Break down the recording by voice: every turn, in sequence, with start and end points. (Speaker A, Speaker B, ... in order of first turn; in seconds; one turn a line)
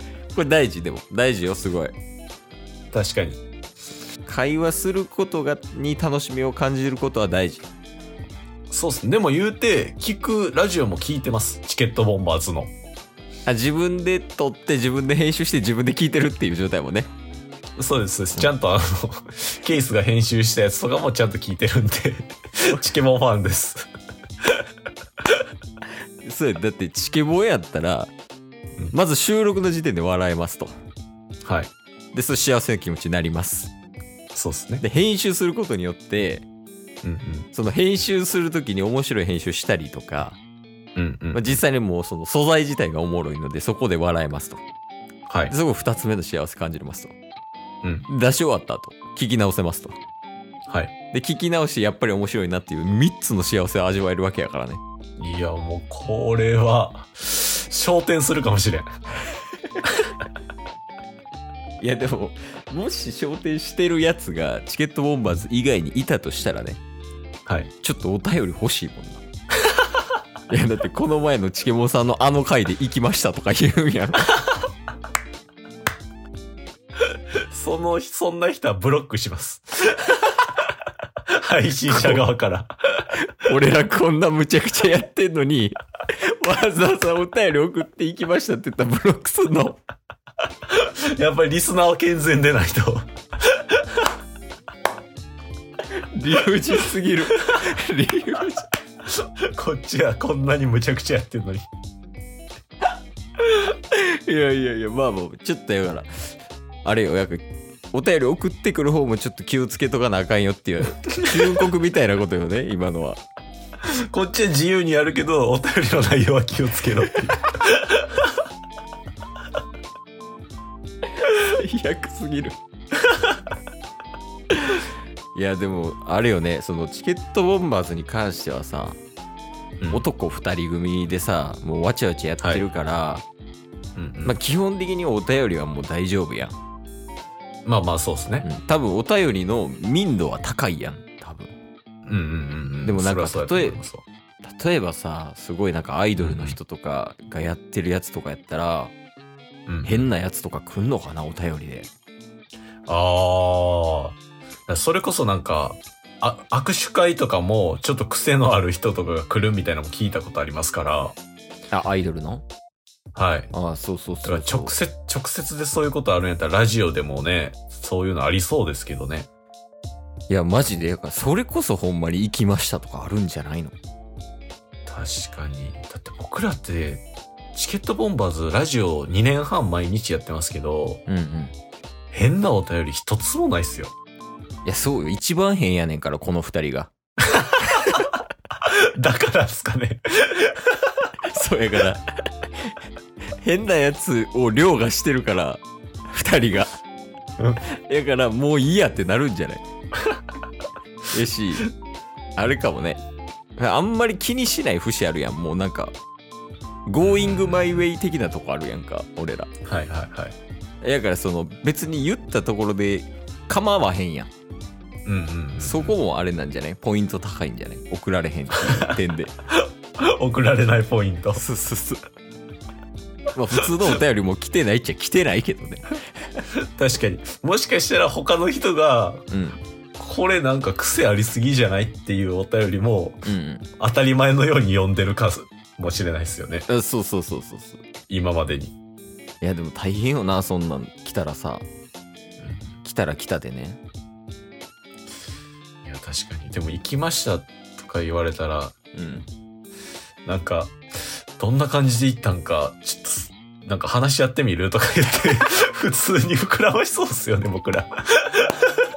Speaker A: 0.3-1.9
Speaker B: 2.9-3.4
Speaker A: 4.2-7.7
Speaker B: 8.7-12.7
Speaker A: 13.4-17.1
Speaker B: 17.8-23.9
Speaker A: 26.2-28.1
Speaker A: 28.9-30.7
Speaker B: 31.4-31.7
Speaker A: 32.1-33.7
Speaker B: 34.3-34.8
Speaker A: 34.8-36.5
Speaker B: 37.0-37.5
Speaker A: 37.5-40.4
Speaker B: 40.9-41.5
Speaker A: 41.3-44.6
Speaker B: 45.3-45.5
Speaker A: 45.5-47.1
Speaker A: 48.1-50.0
Speaker A: 51.1-54.8
Speaker B: 55.2-58.9
Speaker A: 61.8-66.8
Speaker A: 67.8-69.2
Speaker A: 70.5-74.4
Speaker B: 77.5-80.5
Speaker B: 81.3-83.2
Speaker A: 83.3-89.8
Speaker B: 90.7-93.8
Speaker A: 95.9-98.7
Speaker B: 99.2-101.7
Speaker A: 103.4-113.2
Speaker B: 111.2-111.6
Speaker B: 113.8-118.2
Speaker A: 121.1-122.6
Speaker A: 124.5-129.0
Speaker B: 129.8-130.1
Speaker A: 129.9-133.2
Speaker B: 132.4-132.6
Speaker B: 133.9-134.4
Speaker A: 134.2-136.5
Speaker B: 137.6-138.4
Speaker A: 138.4-141.5
Speaker B: 142.0-144.0
Speaker A: 142.8-143.8
Speaker A: 144.4-148.9
Speaker B: 146.2-146.6
Speaker B: 149.7-150.1
Speaker A: 149.8-151.9
Speaker B: 152.9-161.2
Speaker A: 161.7-162.4
Speaker B: 163.1-163.5
Speaker A: 163.5-164.8
Speaker B: 164.2-169.3
Speaker A: 170.3-173.8
Speaker B: 174.8-181.0
Speaker A: 181.1-181.5
Speaker B: 182.1-183.9
Speaker A: 184.6-186.9
Speaker B: 187.3-188.0
Speaker B: 188.6-190.9
Speaker A: 191.3-192.0
Speaker A: 193.4-196.7
Speaker A: 197.5-199.6
Speaker A: 201.1-201.7
Speaker A: 202.4-203.0
Speaker A: 203.6-205.9
Speaker A: 206.9-209.5
Speaker B: 207.0-207.8
Speaker B: 209.6-210.3
Speaker A: 210.8-214.3
Speaker B: 215.1-215.9
Speaker A: 215.6-219.3
Speaker B: 218.7-218.9
Speaker B: 219.5-221.4
Speaker A: 221.3-222.0
Speaker A: 223.3-225.9
Speaker B: 226.5-229.3
Speaker A: 229.3-229.6
Speaker B: 230.0-233.2
Speaker A: 233.2-233.7
Speaker B: 233.8-236.7
Speaker A: 236.7-237.8
Speaker B: 238.1-238.7
Speaker A: 239.4-241.7
Speaker A: 242.8-243.8
Speaker B: 245.8-248.7
Speaker A: 248.9-249.3
Speaker B: 250.2-258.9